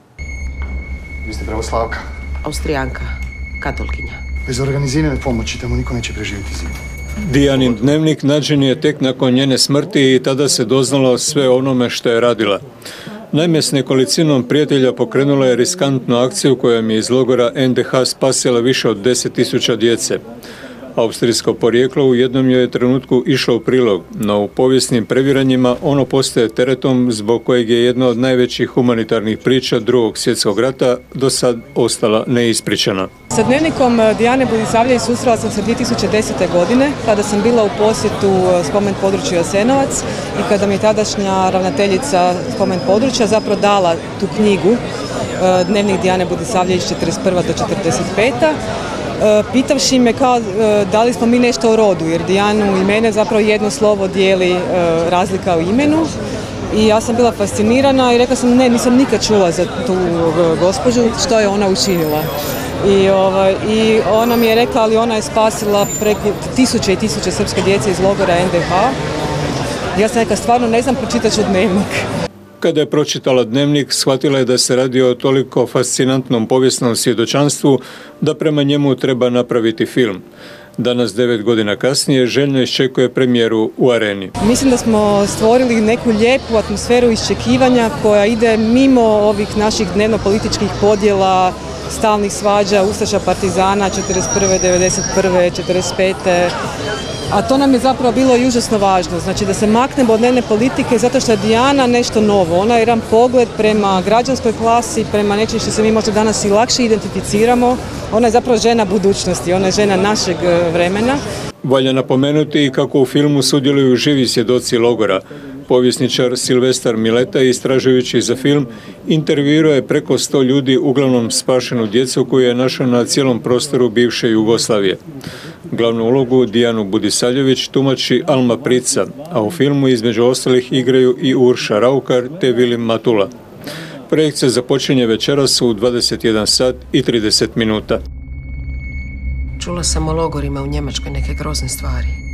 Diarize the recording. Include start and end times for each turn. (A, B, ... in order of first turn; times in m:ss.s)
0:01.2-0:02.0 A
0:02.4-0:04.2 B
0:04.5-0:06.7 A
0:07.2-0:12.6 C
0:13.3-0:20.2 C
0:21.0-0:33.1 C
0:33.3-0:44.8 D
0:45.4-0:48.6 D
0:49.2-0:56.1 D
0:56.7-1:09.0 D
1:10.0-1:12.1 D
1:12.6-1:20.2 C
1:20.8-1:24.3 C
1:24.4-1:36.5 D
1:37.3-1:51.2 D
1:51.6-2:05.0 C
2:05.7-2:13.3 C
2:14.1-2:18.0 C
2:19.6-2:22.1 B